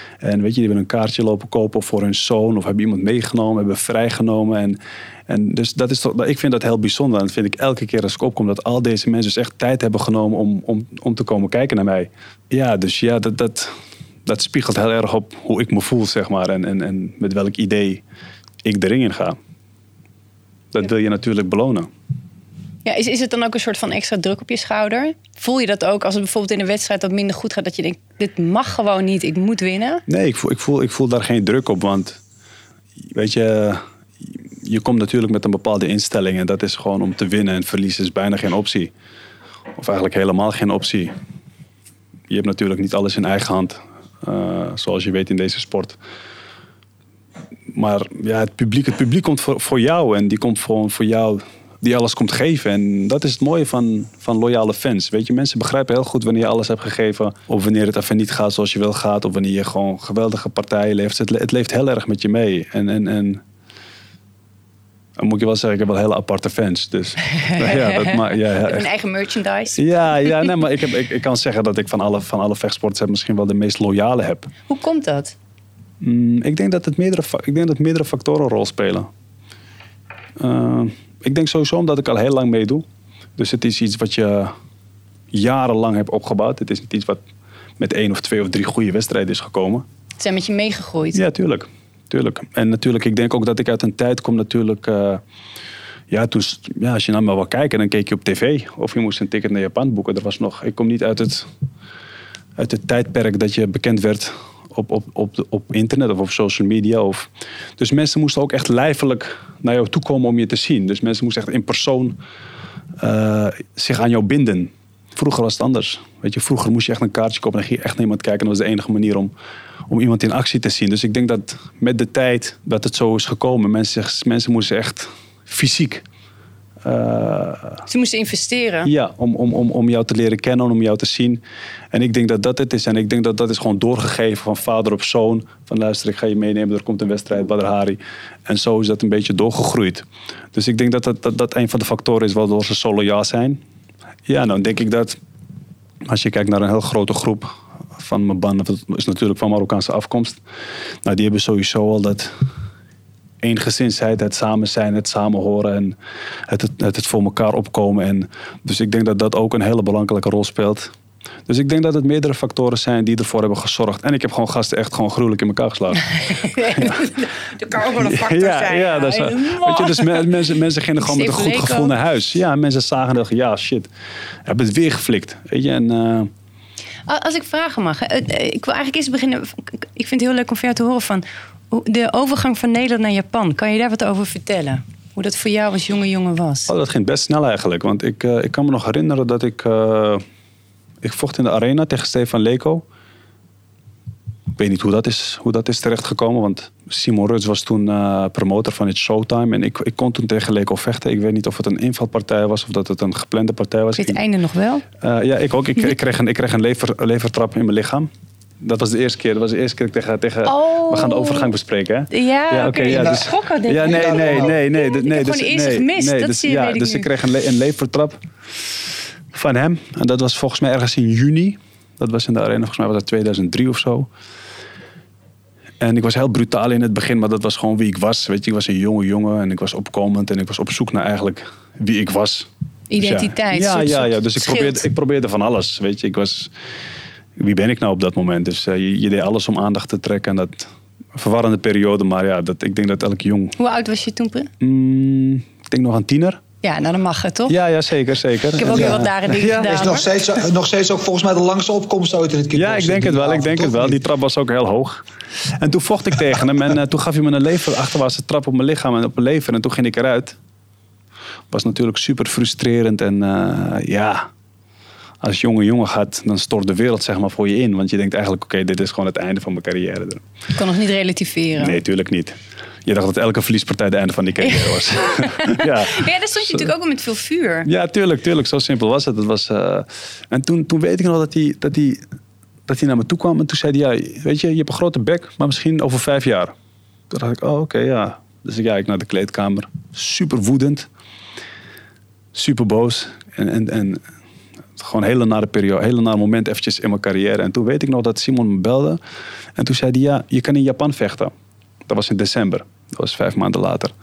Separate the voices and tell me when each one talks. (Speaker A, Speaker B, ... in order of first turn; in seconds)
Speaker A: 0.2-13.7, 14.3-18.0, 18.6-19.4, 20.7-21.9, 30.1-32.2, 33.1-33.8, 34.6-38.9, 39.8-41.1, 42.3-46.0, 47.7-63.4, 65.2-68.9, 69.7-74.5, 76.0-79.1, 80.4-82.8, 83.4-84.5, 85.3-87.2, 87.8-89.8, 91.1-95.2, 96.1-101.5, 102.6-112.2, 113.0-119.3, 119.9-126.0, 126.8-127.8, 128.8-131.4, 131.9-143.6, 144.3-145.2, 146.1-150.4, 151.0-152.3, 153.4-156.0, 156.5-160.9, 161.5-167.1, 167.8-173.9, 174.4-176.3, 186.7-190.2, 191.0-192.8, 194.6-204.2, 205.0-208.1, 208.6-218.2, 219.3-224.1, 225.8-232.5, 233.0-236.5, 237.4-243.6, 244.6-246.4, 247.5-250.0, 252.5-255.1, 255.6-260.4, 261.5-264.3, 265.2-270.2, 271.6-276.7, 277.6-282.0, 282.7-286.5, 287.1-290.9, 292.3-294.0, 294.8-299.0, 299.6-301.3, 301.9-303.9
Speaker B: 22.9-30.1, 67.4-70.5, 74.7-75.3, 90.2-91.2, 127.9-128.9, 166.3-170.4, 171.0-171.9, 177.1-186.7, 204.0-204.8, 210.5-211.5, 212.1-217.1, 232.9-234.8, 243.6-244.5, 246.6-247.6, 248.6-250.1, 270.6-271.8, 274.4-277.7
Speaker C: 212.9-213.2, 213.8-214.6, 248.7-249.1, 249.6-254.0